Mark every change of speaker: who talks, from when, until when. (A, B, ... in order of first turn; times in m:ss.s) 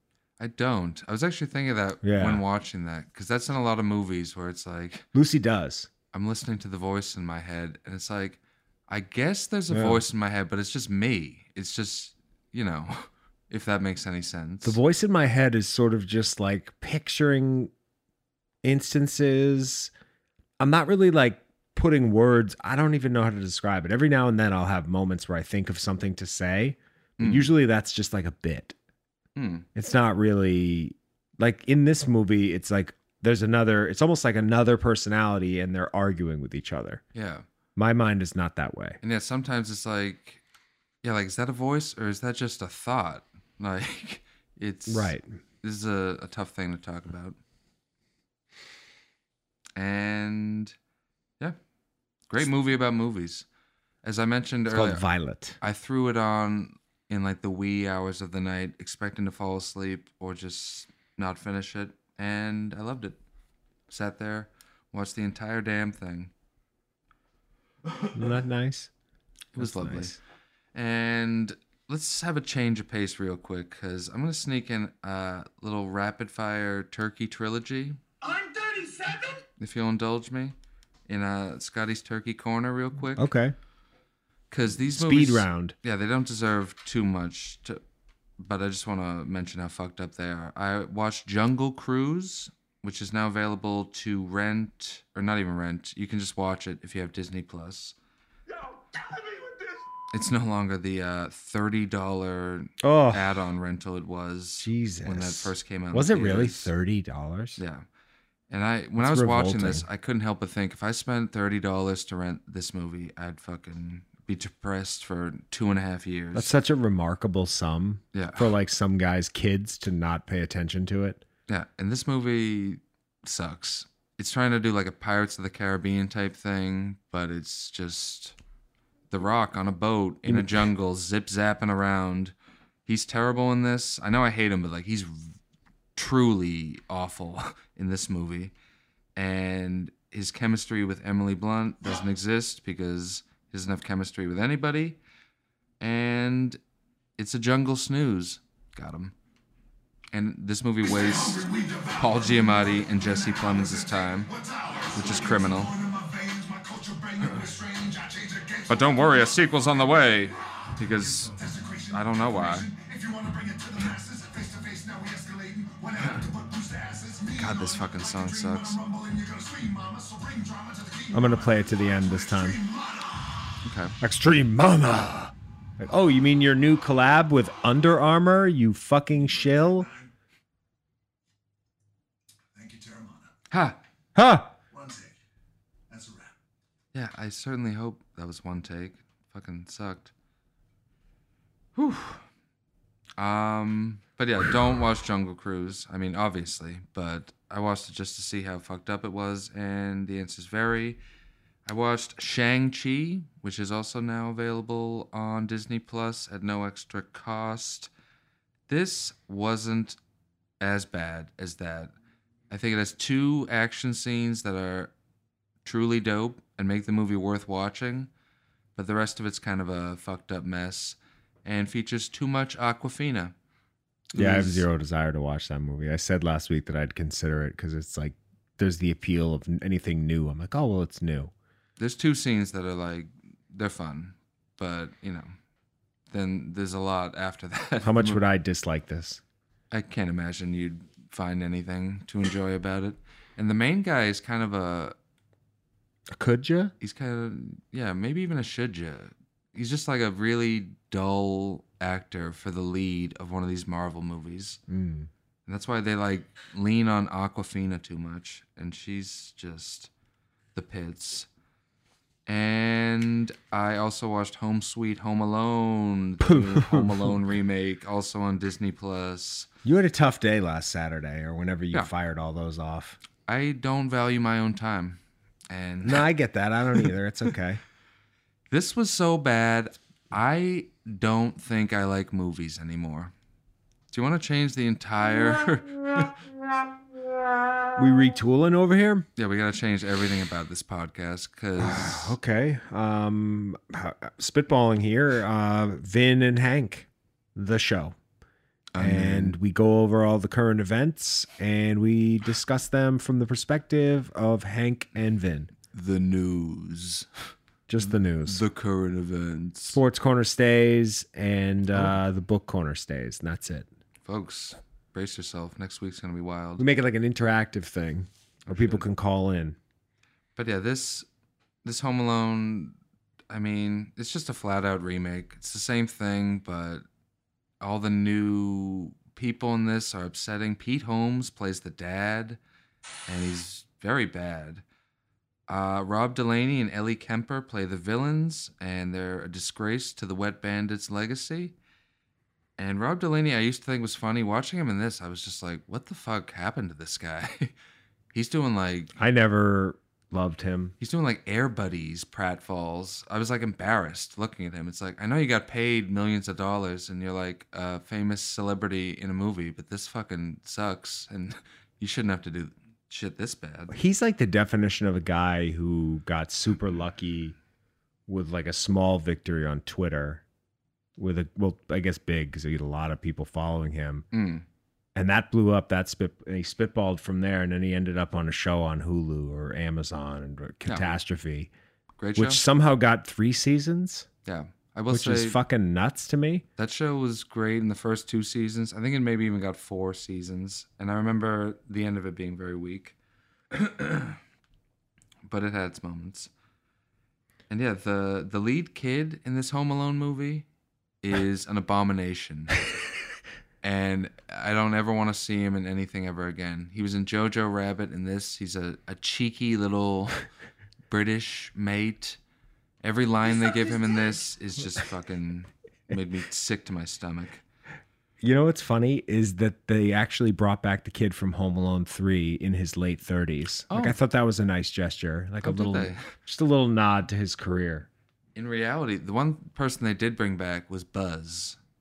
0:00.4-0:05.1 A
0:02.0-0:02.4 B
0:05.1-0:05.9 B
0:06.1-0:14.8 A
0:09.7-0:10.0 B
0:14.6-0:17.7 B
0:18.6-0:19.9 B
0:20.6-0:28.8 B
0:27.2-0:27.5 A
0:29.4-0:29.7 A
0:29.8-0:37.0 B
0:37.2-0:37.4 A
0:37.8-0:39.0 B
0:39.0-0:40.4 A
0:41.0-0:47.4 A
0:44.9-0:45.3 B
0:49.8-0:50.7 A
0:52.3-0:53.5 A
0:54.0-0:55.1 A
0:54.7-0:55.6 B
0:55.6-1:03.2 A
1:03.9-1:06.3 A
1:08.1-1:08.9 B
1:09.6-1:10.2 A
1:09.6-1:10.2 B
1:10.8-1:18.0 A
1:18.2-1:19.2 C
1:19.6-1:20.6 A
1:21.1-1:23.3 A
1:23.2-1:23.6 B
1:24.5-1:27.8 A
1:24.8-1:25.8 B
1:28.4-1:38.0 A
1:38.9-1:39.6 C
1:40.1-1:46.7 A
1:42.8-1:43.4 B
1:44.6-1:47.6 B
1:47.6-1:47.8 A
1:48.5-1:56.5 A
1:49.0-1:49.9 B
1:56.3-2:01.2 B
1:58.1-1:58.5 A
2:01.5-2:08.4 A
2:09.1-2:12.3 A
2:10.2-2:10.7 B
2:12.9-2:15.4 A
2:16.0-2:18.5 A
2:19.2-2:25.0 A
2:25.8-2:26.6 A
2:27.2-2:29.1 A
2:30.1-2:34.3 A
2:30.8-2:53.5 C
2:35.0-2:35.7 A
2:38.7-2:41.3 A
2:41.9-2:42.7 A
2:47.4-2:48.8 A
2:51.1-2:52.6 B
2:53.6-2:53.9 A
2:54.0-2:59.9 B
2:59.1-3:00.1 C
3:02.6-3:03.3 C
3:03.5-3:03.8 A
3:04.2-3:04.5 B
3:04.7-3:05.2 C
3:05.9-3:06.4 C
3:06.9-3:10.1 A
3:11.8-3:12.2 A
3:13.2-3:21.0 A
3:21.7-3:27.9 A
3:28.7-3:30.0 A
3:30.6-3:31.9 A
3:32.5-3:34.9 A
3:35.6-3:38.1 A
3:38.8-3:43.3 A
3:44.1-3:44.7 A
3:44.2-3:51.3 B
3:51.8-3:55.3 A
3:56.1-3:58.2 A
3:57.8-3:59.2 B
3:59.7-4:05.0 A
4:06.1-4:06.7 B
4:06.8-4:14.6 A
4:14.7-4:15.1 B
4:15.5-4:19.9 A
4:20.6-4:21.3 A
4:22.3-4:29.5 A
4:26.2-4:27.2 B
4:29.6-4:33.0 B
4:33.3-4:36.1 A
4:35.8-4:37.6 B
4:38.5-4:43.1 A
4:43.9-4:46.1 A
4:47.8-4:49.1 B
4:49.2-4:52.2 A
4:51.6-4:58.0 B
4:58.7-4:59.4 A
4:58.8-5:05.5 B
5:05.7-5:07.1 A
5:07.7-5:08.4 B
5:07.8-5:09.8 A
5:09.7-5:13.7 B
5:14.1-5:16.6 A
5:16.6-5:19.6 B
5:18.5-5:18.8 A
5:20.4-5:21.1 A
5:21.6-5:22.8 A
5:23.3-5:26.8 A
5:27.6-5:32.4 A
5:33.1-5:34.6 A
5:35.5-5:41.6 A
5:42.6-5:47.5 A
5:48.1-5:48.9 A
5:49.0-5:50.8 B
5:50.8-6:03.7 A
6:03.7-6:07.4 B
6:08.1-6:10.2 B
6:11.0-6:14.0 B
6:14.1-6:14.4 A
6:15.0-6:21.5 B
6:20.6-6:20.9 A
6:22.0-6:22.4 A
6:22.2-6:24.1 B
6:24.3-6:25.4 A
6:24.9-6:26.4 B
6:26.6-6:33.0 A
6:33.5-6:34.2 A
6:35.2-6:36.3 A
6:37.5-6:40.5 A
6:41.0-6:42.6 A
6:43.6-6:50.2 A
6:50.9-6:52.2 A
6:52.8-6:57.4 A
6:58.2-7:07.9 B
7:03.7-7:04.0 A
7:05.4-7:06.1 A
7:08.4-7:11.6 A